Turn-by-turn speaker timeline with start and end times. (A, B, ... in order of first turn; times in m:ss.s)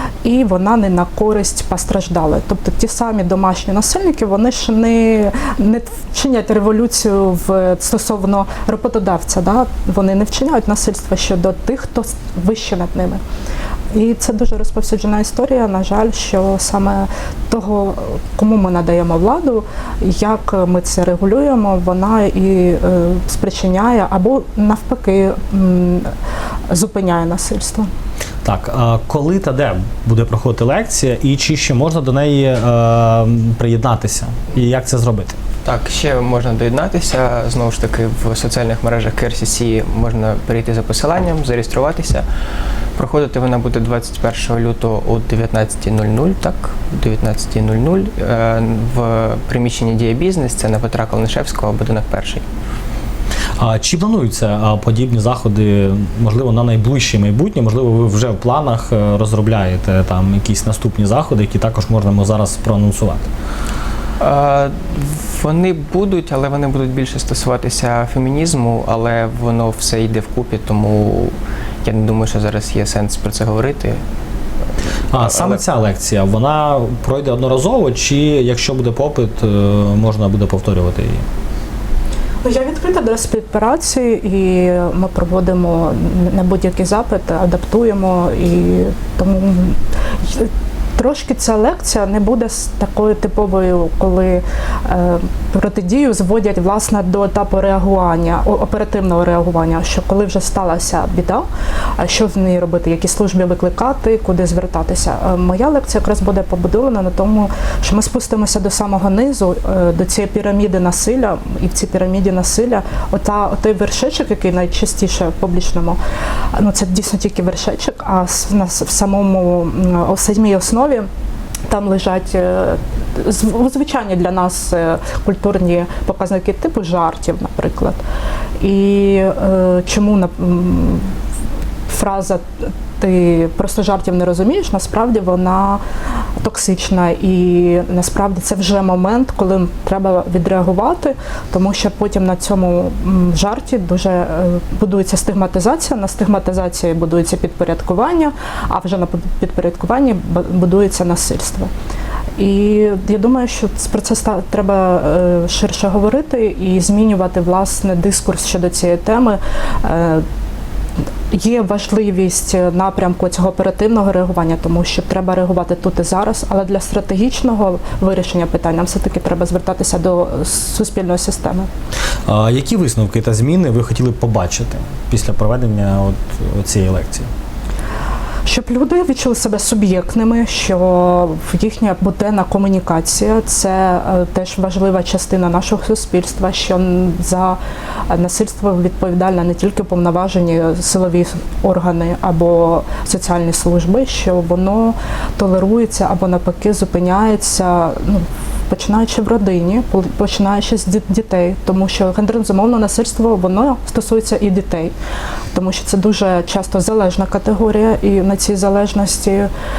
0:00.2-0:13.2 A
0:13.9-0:26.1 A
0:26.7-0:27.9 A
0:28.4-0:35.4 B
0:35.6-0:42.2 C
0:43.0-0:52.4 C
0:53.6-1:03.3 B
1:04.2-1:14.0 C
1:15.1-1:21.2 B
1:15.1-1:15.6 C
1:22.4-1:41.5 A
1:42.0-1:56.0 A
1:56.5-2:01.1 A
2:01.7-2:08.0 A
2:08.6-2:11.1 A
2:11.9-2:15.8 A
2:16.4-2:31.7 A
2:32.4-2:40.2 A
2:41.3-2:51.7 A
2:52.3-2:57.3 B
2:58.4-3:24.9 A
3:25.5-3:29.5 A